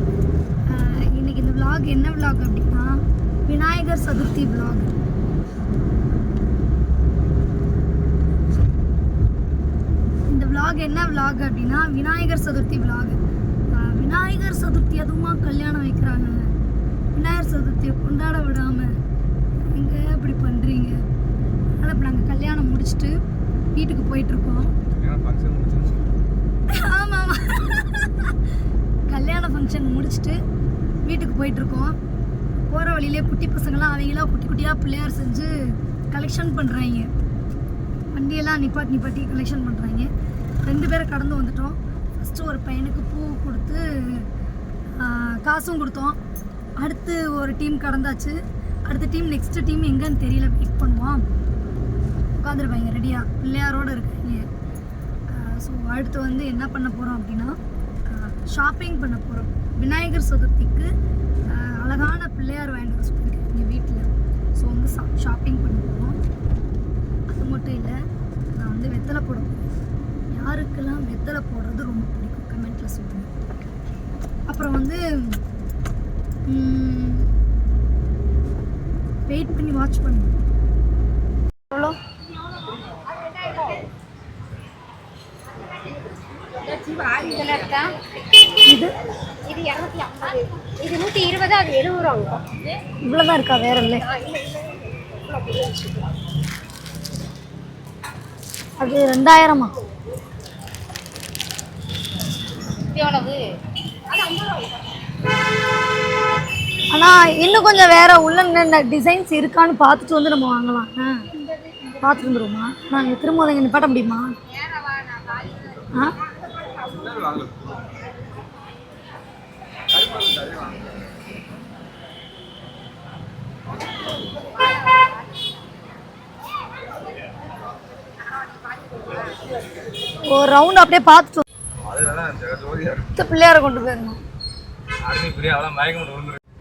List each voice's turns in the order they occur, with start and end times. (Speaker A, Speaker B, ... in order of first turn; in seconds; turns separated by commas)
Speaker A: 0.7-4.9, Speaker A: 10.3-16.6, Speaker A: 17.1-19.0, Speaker A: 19.5-21.0, Speaker A: 21.8-23.1, Speaker A: 23.7-24.7, Speaker B: 24.9-26.0, Speaker A: 26.7-28.4, Speaker A: 29.1-30.4, Speaker A: 31.0-32.0, Speaker A: 32.7-37.1, Speaker A: 38.1-40.1, Speaker A: 40.6-44.3, Speaker A: 44.9-46.2, Speaker A: 46.8-51.2, Speaker A: 52.4-54.5, Speaker A: 55.3-60.9, Speaker A: 61.5-66.2, Speaker A: 67.3-68.0, Speaker A: 68.5-69.6, Speaker A: 70.3-73.3, Speaker A: 74.5-75.4, Speaker A: 76.5-77.3, Speaker A: 79.3-80.3, Speaker A: 81.7-82.0, Speaker C: 83.5-83.8, Speaker C: 86.6-88.0, Speaker A: 88.4-88.9, Speaker C: 89.4-92.5, Speaker A: 93.0-94.2, Speaker C: 94.2-96.1, Speaker A: 98.8-99.8, Speaker C: 102.8-103.6, Speaker C: 104.1-104.7, Speaker A: 106.9-111.3, Speaker A: 111.9-114.3, Speaker A: 115.9-116.2, Speaker B: 117.2-117.6, Speaker B: 120.2-120.5, Speaker A: 130.1-131.4, Speaker B: 131.9-133.0, Speaker A: 133.0-134.2, Speaker B: 135.0-136.4